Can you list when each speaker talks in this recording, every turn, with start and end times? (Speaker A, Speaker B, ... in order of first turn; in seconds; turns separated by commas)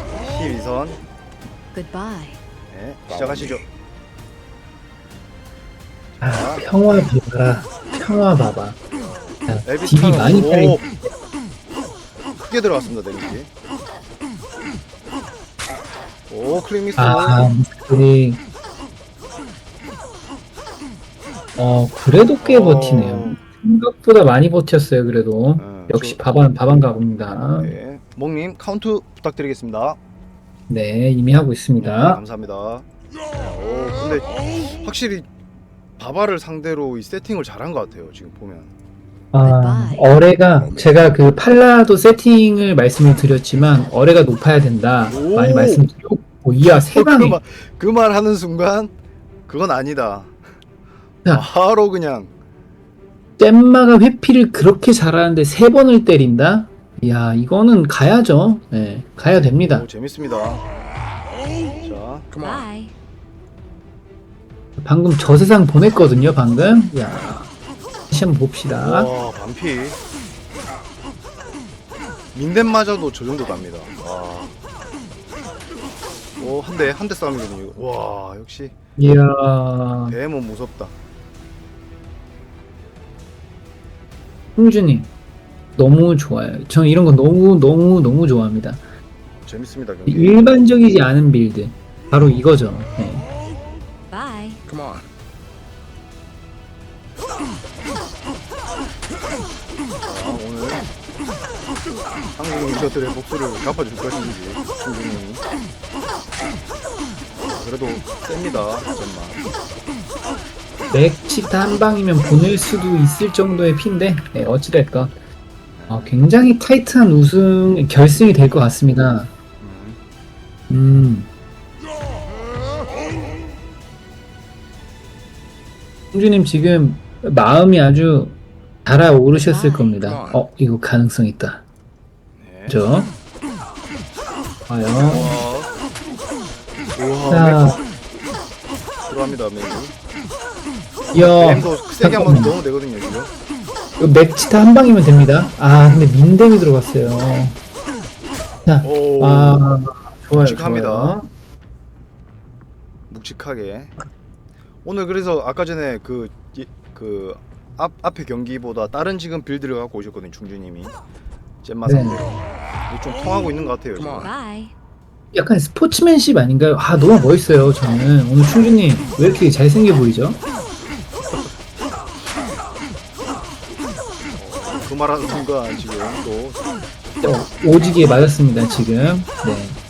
Speaker A: 0.1-1.0, Speaker B: 1.7-2.4, Speaker A: 2.7-3.7, Speaker A: 6.2-6.7, Speaker C: 6.2-8.8, Speaker A: 8.9-10.8, Speaker C: 9.5-11.1, Speaker A: 12.4-13.5, Speaker A: 16.3-17.5, Speaker C: 17.0-18.4, Speaker C: 21.6-27.7, Speaker A: 22.4-23.4, Speaker A: 25.6-26.2, Speaker A: 27.6-30.0, Speaker C: 30.7-32.2, Speaker A: 31.8-35.3, Speaker A: 36.0-38.7, Speaker C: 39.3-47.4, Speaker B: 39.4-40.2, Speaker A: 45.1-45.9, Speaker A: 46.7-48.9, Speaker A: 49.5-50.4, Speaker A: 51.3-52.3, Speaker C: 53.4-59.9, Speaker A: 59.3-60.6, Speaker A: 61.8-62.3, Speaker B: 62.4-62.9, Speaker C: 64.8-67.5, Speaker C: 68.1-69.1, Speaker A: 68.7-70.0, Speaker A: 72.3-74.5, Speaker A: 76.4-78.8, Speaker C: 79.0-80.2, Speaker A: 80.1-81.0, Speaker C: 84.6-85.1, Speaker C: 85.8-88.8, Speaker A: 89.4-90.7, Speaker C: 90.1-93.3, Speaker B: 94.1-94.6, Speaker A: 100.0-100.9, Speaker A: 102.4-105.4, Speaker A: 107.4-109.4, Speaker C: 110.9-115.1, Speaker A: 115.8-116.2, Speaker C: 115.9-119.3, Speaker A: 119.6-120.0, Speaker C: 120.7-121.3, Speaker C: 126.1-131.6, Speaker B: 129.4-130.0, Speaker A: 132.4-132.9, Speaker C: 132.7-133.1, Speaker C: 134.7-135.4, Speaker A: 135.1-135.7, Speaker A: 136.9-137.6, Speaker C: 137.3-137.8, Speaker A: 139.1-139.9, Speaker C: 141.1-142.6, Speaker A: 141.2-143.3, Speaker C: 144.0-147.6, Speaker C: 148.7-151.3, Speaker A: 148.8-149.7, Speaker A: 150.4-151.2, Speaker A: 153.1-154.0, Speaker A: 154.8-161.0, Speaker A: 161.6-164.3, Speaker C: 161.8-162.2, Speaker B: 164.2-164.7, Speaker C: 165.3-170.4, Speaker A: 174.4-176.6, Speaker C: 177.2-179.8